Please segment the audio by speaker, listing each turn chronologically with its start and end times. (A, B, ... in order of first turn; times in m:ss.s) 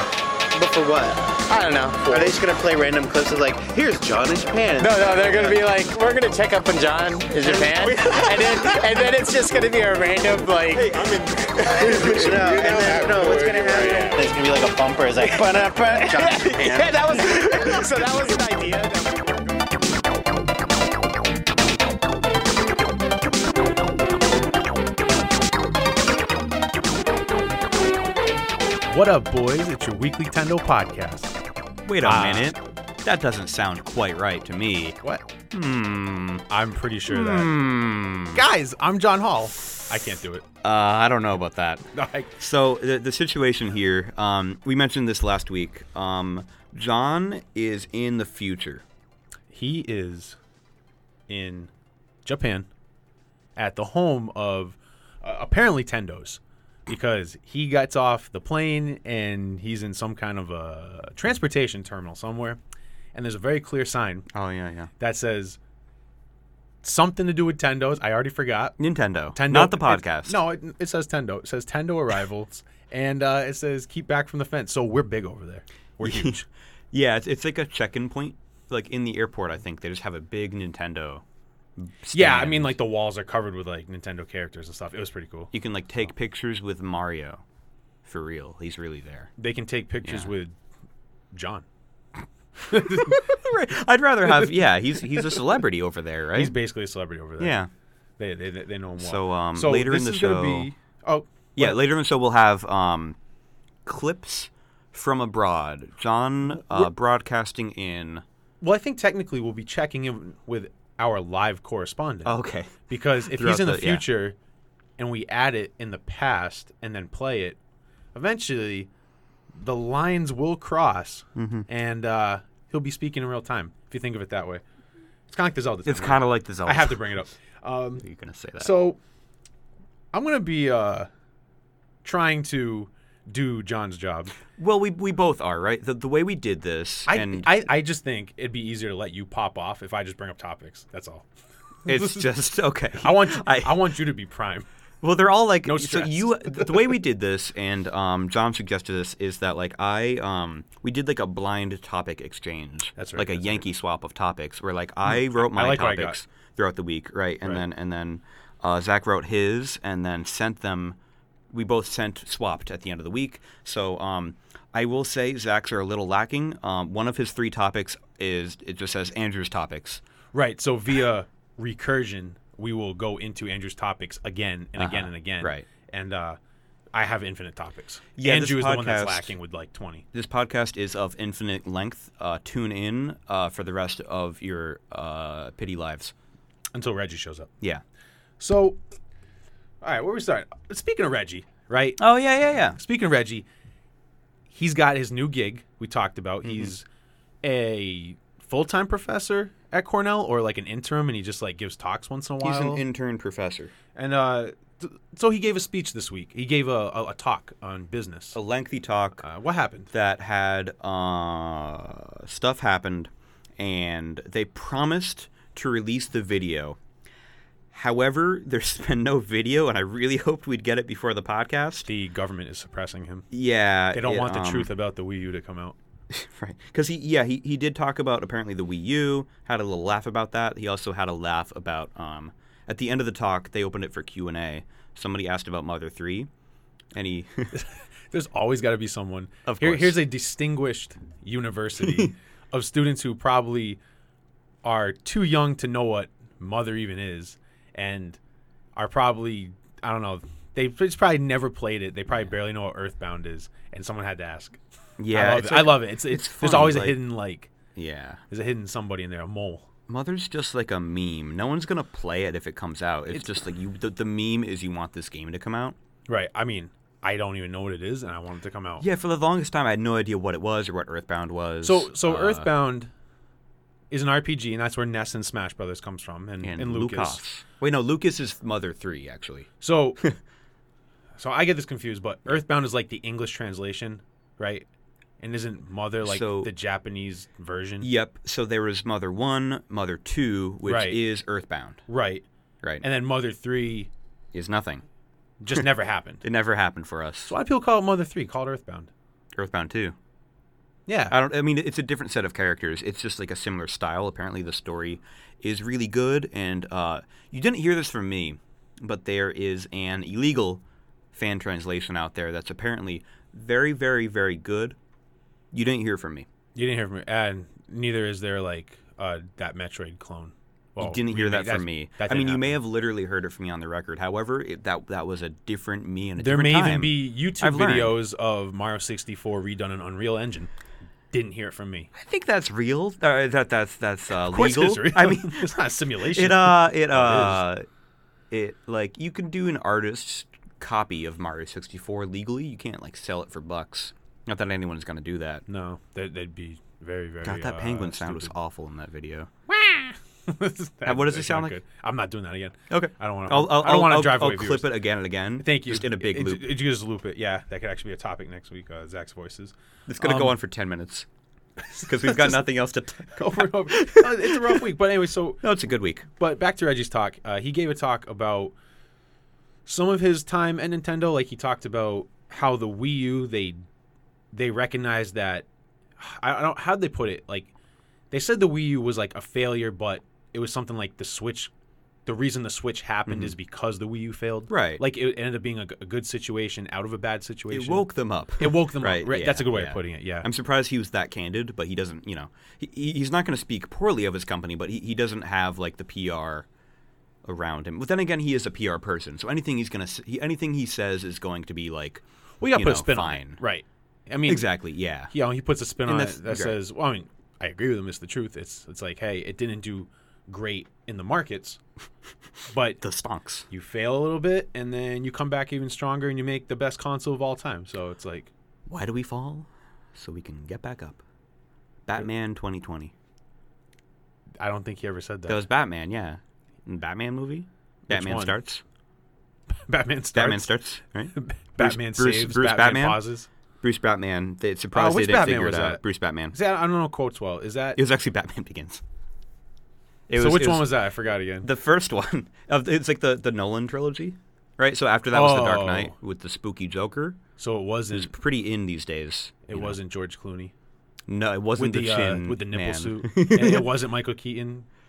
0:00.5-0:01.4 A
0:01.5-0:02.4 B
0:02.0-0:05.6 A
0:04.8-0:11.1 B
0:07.4-0:08.3 A
0:07.8-0:08.7 C
0:11.0-0:14.2 D
0:11.6-0:12.4 C
0:11.8-0:17.8 A
0:13.9-0:14.2 B
0:15.3-0:19.2 B
0:28.9-0:31.4 E
0:31.9-0:35.0 C
0:32.0-0:32.6 E
0:35.5-0:36.4 C
0:36.5-0:37.6 E
0:37.1-0:38.4 C
0:38.3-0:40.4 E
0:40.6-0:48.8 C
0:41.9-0:42.4 E
0:49.5-0:50.4 E
0:51.3-0:51.7 E
0:52.2-0:52.7 E
0:53.6-1:02.6 E
1:03.1-1:04.3 E
1:04.3-1:04.9 C
1:05.0-1:05.6 E
1:06.8-1:08.8 E
1:08.8-1:10.4 C
1:09.3-1:16.4 E
1:16.0-1:16.4 C
1:16.9-1:21.2 C
1:21.8-1:22.7 C
1:22.1-1:25.5 E
1:25.5-1:27.4 C
1:28.0-1:29.3 C
1:29.4-1:30.6 E
1:30.0-1:30.3 C
1:31.3-1:31.7 E
1:32.7-1:33.2 E
1:32.7-1:36.5 C
1:34.3-1:34.5 E
1:35.1-1:35.4 E
1:36.3-1:37.6 E
1:37.4-1:37.7 C
1:38.2-1:41.8 E
1:39.0-1:40.7 C
1:41.6-1:43.2 C
1:43.9-1:48.2 C
1:46.5-1:46.9 E
1:48.6-1:52.4 E
1:52.2-1:54.0 C
1:52.9-1:54.4 E
1:55.0-1:57.6 E
1:58.1-1:58.9 E
1:59.6-2:04.6 E
2:01.3-2:01.7 C
2:05.3-2:08.0 E
2:05.9-2:07.0 C
2:08.0-2:08.7 C
2:08.6-2:09.0 E
2:10.1-2:11.1 E
2:12.0-2:14.4 E
2:14.6-2:17.6 C
2:17.1-2:21.2 E
2:21.8-2:22.3 E
2:21.9-2:23.9 C
2:23.0-2:24.7 E
2:25.0-2:41.0 C
2:25.7-2:26.9 E
2:33.0-2:33.7 E
2:35.0-2:36.2 E
2:41.5-2:50.0 C
2:50.3-2:56.4 E
2:54.8-2:55.7 C
2:56.9-3:00.0 E
2:58.2-2:59.3 C
3:00.1-3:06.1 C
3:06.7-3:07.5 E
3:08.4-3:08.8 E
3:09.8-3:12.0 E
3:12.0-3:12.8 C
3:12.7-3:13.5 E
3:14.5-3:16.8 E
3:16.4-3:16.7 C
3:17.4-3:22.8 E
3:22.4-3:23.7 C
3:24.0-3:28.4 E
3:28.3-3:29.2 C
3:29.2-3:29.9 E
3:29.9-3:36.8 C
3:37.7-3:41.9 C
3:41.8-3:43.3 E
3:43.3-3:44.7 C
3:43.9-3:45.8 E
3:46.1-3:56.3 C
3:56.9-3:57.6 C
3:57.5-4:03.8 E
3:59.5-4:00.0 C
4:04.6-4:08.2 E
4:08.8-4:14.6 E
4:15.0-4:17.0 C
4:15.1-4:17.5 E
4:17.8-4:18.2 C
4:18.3-4:19.7 E
4:19.9-4:25.8 C
4:26.1-4:28.9 E
4:28.8-4:32.5 C
4:31.6-4:32.9 E
4:33.9-4:37.2 E
4:36.4-4:40.2 C
4:39.6-4:40.0 E
4:41.2-4:44.7 E
4:45.2-4:47.9 E
4:46.0-4:46.5 C
4:47.8-4:51.8 C
4:50.6-4:51.0 E
4:51.9-4:52.2 E
4:52.8-4:53.9 E
4:54.3-4:54.8 C
4:55.4-4:56.2 E
4:56.2-4:57.3 C
4:57.3-4:58.9 E
4:59.4-5:00.0 C
5:00.9-5:01.2 E
5:01.1-5:10.6 C
5:11.1-5:14.8 C
5:15.5-5:16.3 C
5:16.6-5:22.6 E
5:20.8-5:28.0 C
5:26.2-5:30.5 E
5:31.1-5:31.9 E
5:31.9-5:35.5 C
5:34.2-5:37.4 E
5:36.0-5:37.6 C
5:38.3-5:45.4 C
5:45.5-5:48.3 E
5:47.2-5:49.3 C
5:49.5-5:54.7 E
5:50.8-5:51.6 C
5:52.7-5:56.4 C
5:55.4-6:00.4 E
5:59.9-6:01.1 C
6:01.7-6:02.4 E
6:01.8-6:04.6 C
6:03.1-6:05.4 E
6:05.4-6:06.1 C
6:06.2-6:08.5 E
6:09.7-6:13.6 E
6:14.3-6:15.4 E
6:16.0-6:17.5 E
6:18.1-6:21.5 E
6:22.1-6:30.3 E
6:23.1-6:23.3 C
6:24.5-6:24.8 C
6:27.5-6:36.4 C
6:37.2-6:43.4 C
6:42.4-6:44.5 E
6:44.3-6:45.1 C
6:45.1-6:51.6 E
6:45.9-6:46.6 C
6:52.5-6:52.8 E
6:52.8-6:53.5 C
6:53.5-6:58.3 E
6:58.7-7:01.0 C
7:01.9-7:02.9 C
7:04.4-7:05.4 E
7:05.3-7:08.6 C
7:07.9-7:08.4 E
7:09.5-7:10.6 E
7:10.1-7:13.0 C
7:11.2-7:13.3 E
7:13.6-7:16.4 C
7:14.7-7:17.8 E
7:17.8-7:18.8 C
7:20.1-7:20.8 C
7:20.1-7:21.5 E
7:21.4-7:27.2 C
7:25.1-7:25.9 E
7:27.4-7:28.1 E
7:27.9-7:29.8 C
7:29.4-7:30.5 E
7:31.1-7:33.7 C
7:31.6-7:34.7 E